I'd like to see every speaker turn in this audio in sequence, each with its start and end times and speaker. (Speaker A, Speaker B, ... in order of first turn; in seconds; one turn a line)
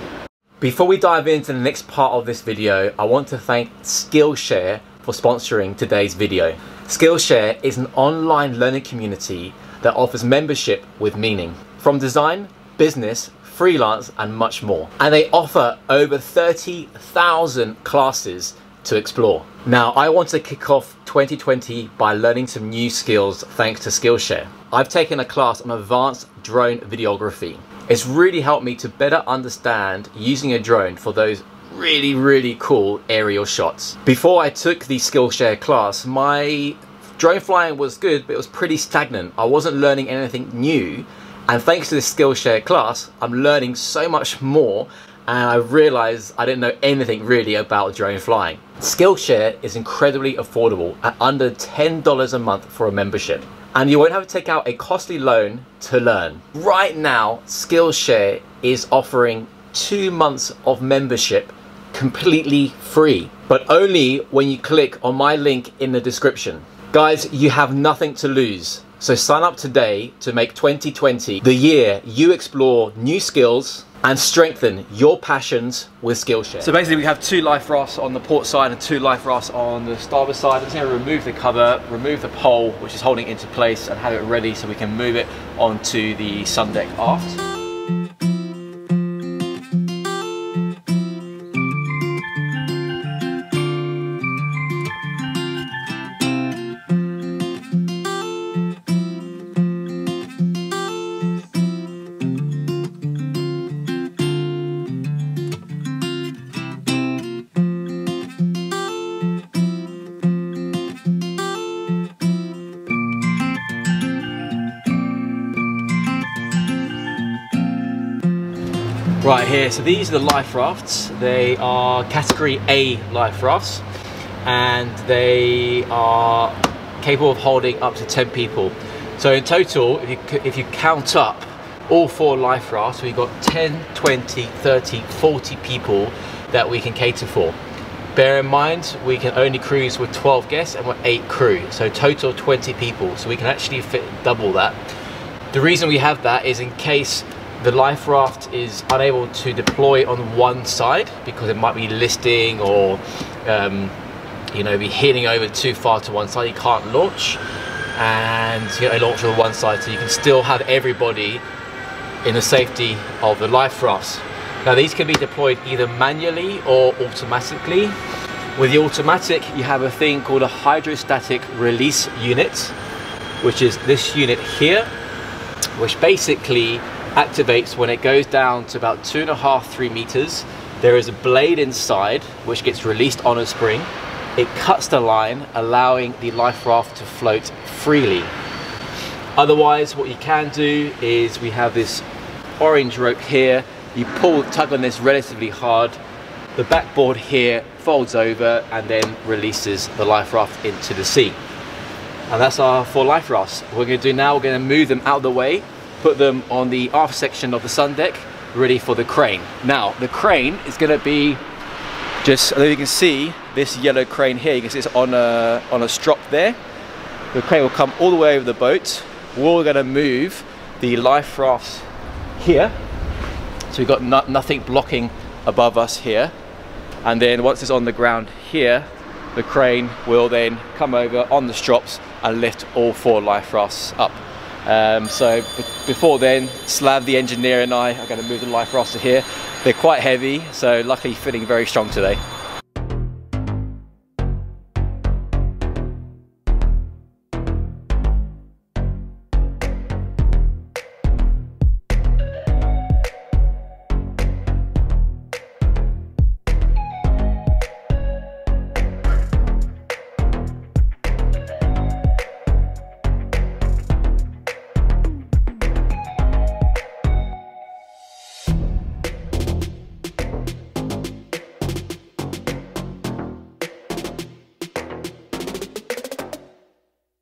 Speaker A: 0.6-87.4
Speaker A: 119.2-123.8
Speaker A: 124.4-137.6
Speaker A: 138.1-144.9
Speaker A: 145.5-153.9
Speaker A: 154.5-157.4
Speaker A: 157.9-161.4
Speaker A: 162.2-168.0
Speaker A: 168.6-172.8
Speaker A: 173.4-174.9
Speaker A: 175.8-188.3
Speaker A: 189.3-192.1
Speaker A: 192.6-196.0
Speaker A: 196.6-201.4
Speaker A: 202.3-211.4
Speaker A: 212.2-216.6
Speaker A: 217.3-221.9
Speaker A: 222.4-222.8
Speaker A: 223.7-226.3
Speaker A: 227.0-242.2